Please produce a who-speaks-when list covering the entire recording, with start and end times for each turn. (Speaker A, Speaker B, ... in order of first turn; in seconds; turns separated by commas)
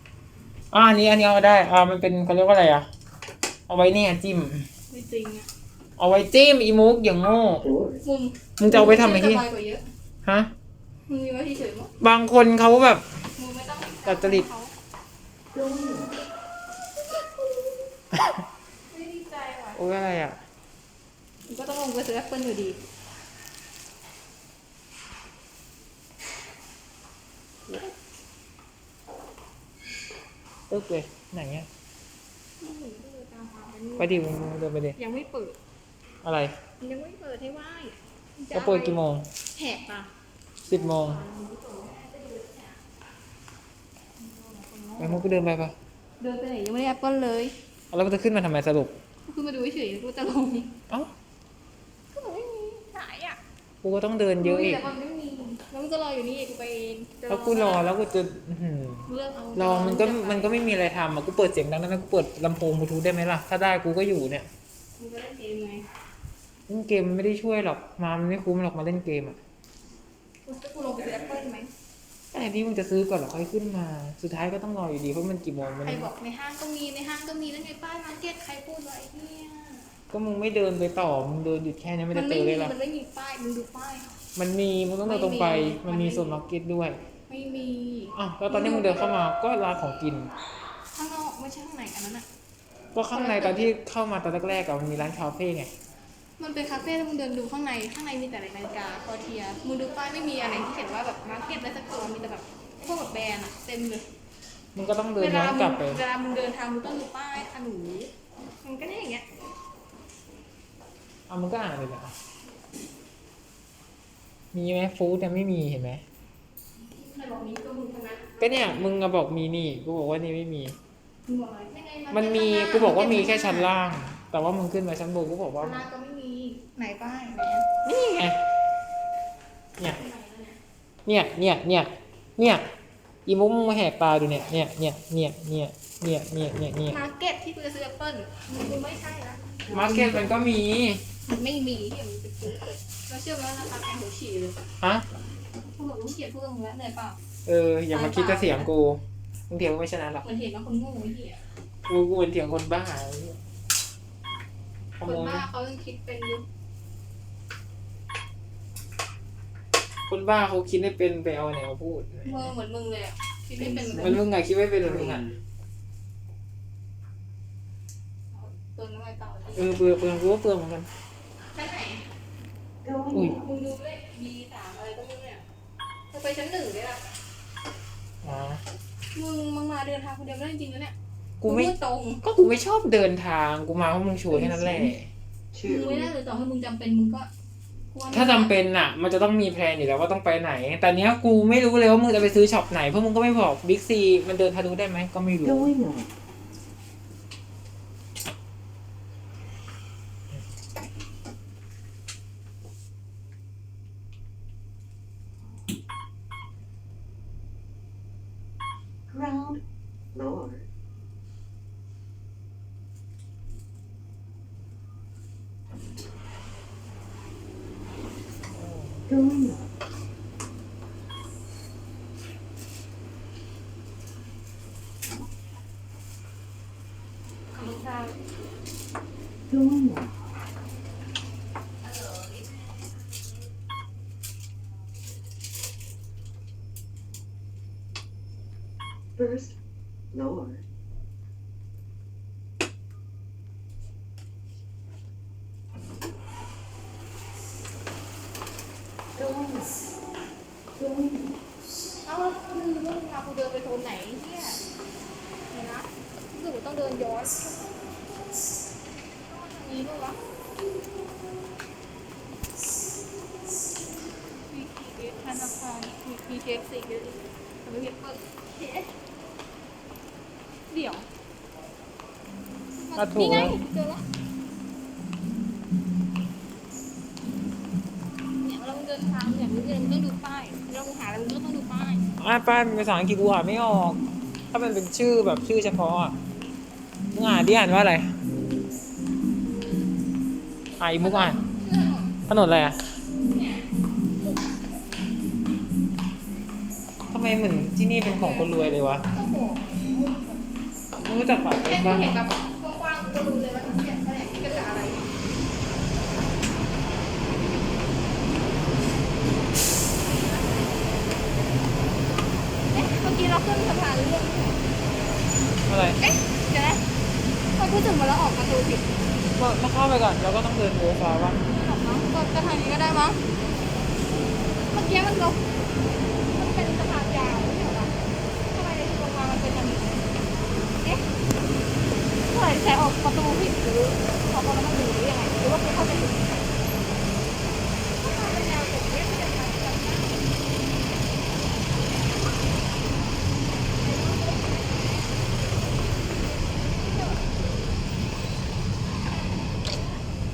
Speaker A: 0.7-2.9, Speaker A: 3.7-4.7, Speaker B: 4.9-5.5, Speaker A: 6.0-7.7, Speaker B: 8.0-9.8, Speaker A: 8.6-9.4, Speaker A: 10.2-10.5, Speaker B: 11.1-11.9, Speaker A: 12.0-13.2, Speaker B: 13.3-14.7, Speaker A: 14.0-14.5, Speaker C: 15.5-16.1, Speaker B: 17.1-17.7, Speaker B: 18.9-19.8, Speaker A: 19.7-20.4, Speaker B: 21.5-22.8, Speaker A: 30.7-31.7, Speaker B: 32.6-34.3, Speaker A: 34.0-35.0, Speaker B: 35.0-35.6, Speaker A: 36.2-36.5, Speaker B: 36.8-39.0, Speaker A: 38.5-39.3, Speaker B: 39.5-40.1, Speaker A: 40.6-41.2, Speaker B: 40.7-42.8, Speaker B: 44.2-45.3, Speaker A: 45.0-45.8, Speaker B: 46.2-47.5, Speaker A: 47.9-48.9, Speaker B: 49.2-50.7, Speaker B: 52.1-53.4, Speaker A: 53.8-54.9, Speaker B: 54.4-57.9, Speaker A: 57.3-64.5, Speaker B: 59.1-60.5, Speaker B: 65.0-65.8, Speaker A: 66.7-69.4, Speaker B: 70.5-71.7, Speaker A: 72.3-76.1, Speaker B: 75.8-79.9, Speaker A: 80.1-82.7, Speaker B: 82.1-84.2, Speaker A: 84.3-87.0, Speaker B: 85.0-86.4, Speaker B: 87.3-89.1, Speaker A: 88.2-90.3, Speaker B: 90.9-92.2, Speaker A: 92.9-95.7, Speaker B: 93.1-93.7, Speaker B: 96.4-104.0, Speaker A: 104.7-106.0, Speaker B: 105.2-108.1, Speaker B: 108.6-109.2, Speaker A: 111.3-112.1, Speaker A: 114.5-116.0, Speaker B: 116.8-118.9, Speaker A: 118.4-120.8, Speaker B: 121.2-123.7, Speaker A: 122.1-125.8, Speaker B: 125.6-128.3, Speaker A: 128.1-128.4, Speaker B: 129.8-130.6, Speaker A: 131.1-132.6, Speaker A: 133.2-137.0, Speaker B: 136.8-139.4, Speaker A: 139.7-141.0, Speaker B: 141.2-144.6, Speaker A: 144.8-145.1, Speaker B: 145.8-147.2, Speaker A: 147.4-150.2, Speaker B: 147.9-148.7, Speaker B: 150.2-151.4, Speaker A: 151.9-153.4, Speaker A: 155.0-155.4, Speaker B: 155.0-156.4, Speaker A: 160.1-162.5, Speaker B: 162.2-164.2, Speaker A: 163.9-165.3, Speaker B: 168.3-169.8, Speaker A: 169.5-170.9, Speaker B: 171.5-172.0, Speaker C: 172.8-173.1, Speaker A: 173.1-173.4, Speaker B: 173.2-175.4, Speaker B: 176.1-177.1, Speaker A: 178.2-178.6, Speaker B: 179.1-182.2, Speaker A: 181.4-181.7, Speaker A: 182.2-185.1, Speaker B: 184.3-184.9, Speaker C: 185.5-186.0, Speaker B: 185.6-187.3, Speaker B: 187.9-188.5, Speaker A: 188.1-195.7, Speaker C: 195.5-196.1, Speaker C: 209.1-209.6, Speaker C: 210.1-210.6, Speaker A: 218.5-219.1, Speaker C: 219.2-219.5, Speaker B: 227.5-228.2, Speaker C: 229.5-230.1, Speaker C: 239.2-239.5, Speaker C: 240.1-240.6, Speaker C: 249.2-249.7, Speaker C: 250.8-251.3, Speaker B: 252.0-254.6, Speaker B: 255.5-257.7, Speaker B: 259.3-260.2, Speaker B: 264.5-268.9, Speaker B: 270.7-271.1, Speaker B: 272.7-274.0, Speaker A: 273.0-273.6, Speaker B: 278.4-282.1, Speaker A: 282.2-286.2, Speaker A: 287.1-288.1, Speaker A: 290.8-291.4, Speaker B: 291.0-292.1, Speaker A: 292.3-292.9, Speaker B: 293.2-293.7, Speaker A: 297.1-299.0, Speaker B: 298.1-300.4, Speaker A: 300.9-302.1, Speaker B: 301.6-305.1, Speaker B: 312.7-314.6, Speaker A: 315.7-316.0, Speaker B: 316.0-316.9, Speaker B: 317.5-318.9, Speaker A: 319.4-321.4, Speaker B: 321.4-323.2, Speaker B: 324.7-325.4, Speaker B: 326.3-327.9, Speaker B: 328.5-330.1, Speaker B: 330.8-331.1, Speaker B: 332.3-336.4, Speaker B: 338.0-340.2, Speaker B: 343.8-344.6, Speaker B: 346.6-347.2